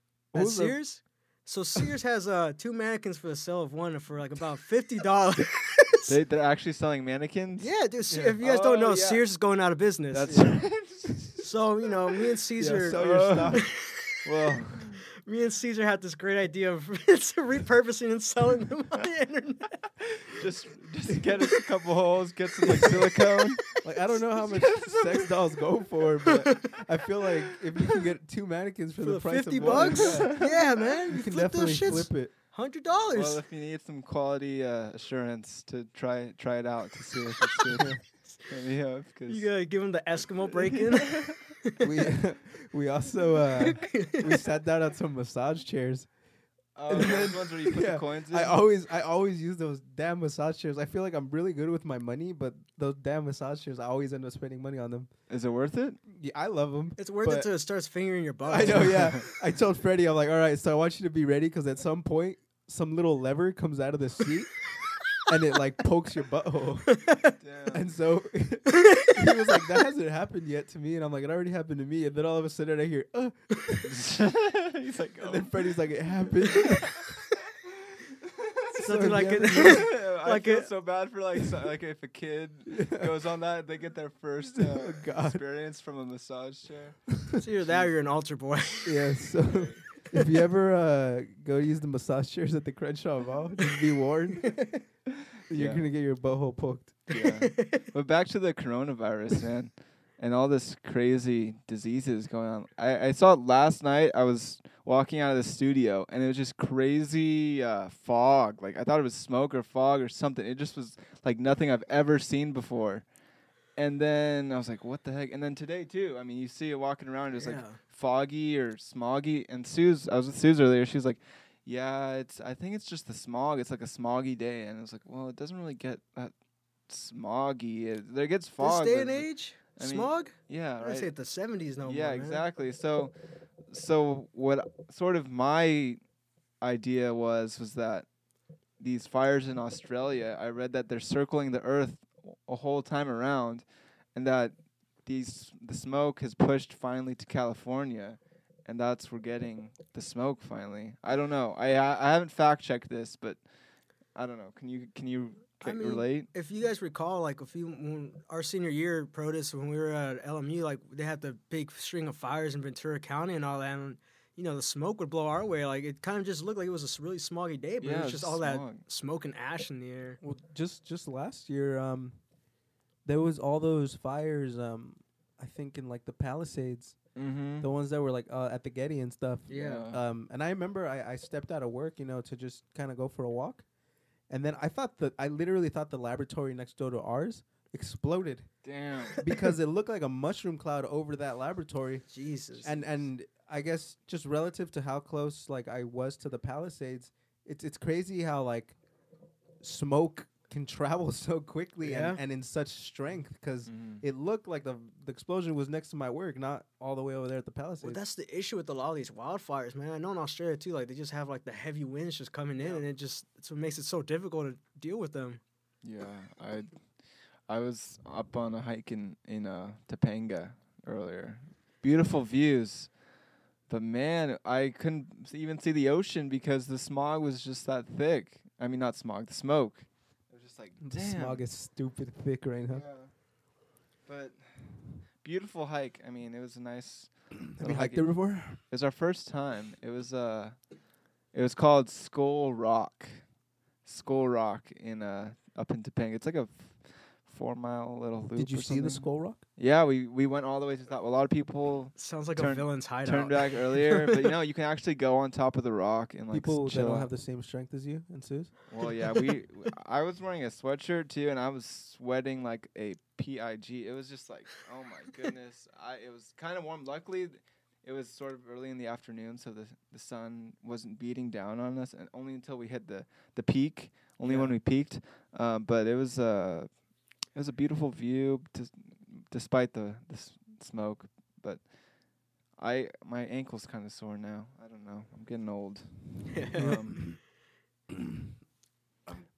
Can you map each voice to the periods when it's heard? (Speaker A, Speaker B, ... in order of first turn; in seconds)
Speaker A: 0.3-6.1, 7.6-14.0, 15.2-20.2, 22.8-23.5, 29.0-33.4, 39.3-41.7, 43.8-44.3, 57.0-59.3, 69.0-69.3, 78.7-80.7, 87.4-89.1, 97.1-97.8, 117.3-117.8, 128.6-132.4, 155.6-170.2, 179.5-179.8, 192.1-192.7, 201.8-202.2, 207.8-215.4, 251.9-254.2, 274.2-274.6
Speaker B: 0.3-0.8, 8.1-8.4, 10.3-10.8, 12.6-13.7, 23.8-32.3, 37.8-38.0, 41.8-46.2, 46.9-55.3, 56.0-57.5, 58.4-67.0, 67.7-73.8, 75.2-77.1, 78.8-79.9, 84.5-85.4, 88.8-95.0, 95.5-97.1, 170.2-172.2, 173.0-183.7, 184.3-198.8, 199.6-208.0, 230.8-232.8, 237.6-238.6, 248.3-249.4, 256.3-258.9, 286.6-287.2
Speaker C: 6.1-7.8, 8.4-9.4, 10.1-11.4, 12.8-15.0, 20.3-23.8, 24.4-25.4, 29.6-30.9, 33.0-39.6, 46.7-48.6, 55.3-56.0, 58.5-59.2, 67.4-67.8, 73.8-75.5, 79.5-87.9, 89.5-89.9, 95.5-95.8, 97.1-131.2, 131.8-138.2, 138.7-156.3, 167.8-168.8, 177.1-177.7, 179.5-180.0, 188.6-189.2, 203.7-204.0, 212.6-212.8, 215.8-223.0, 223.7-231.5, 232.7-233.3, 234.0-257.1, 258.7-287.1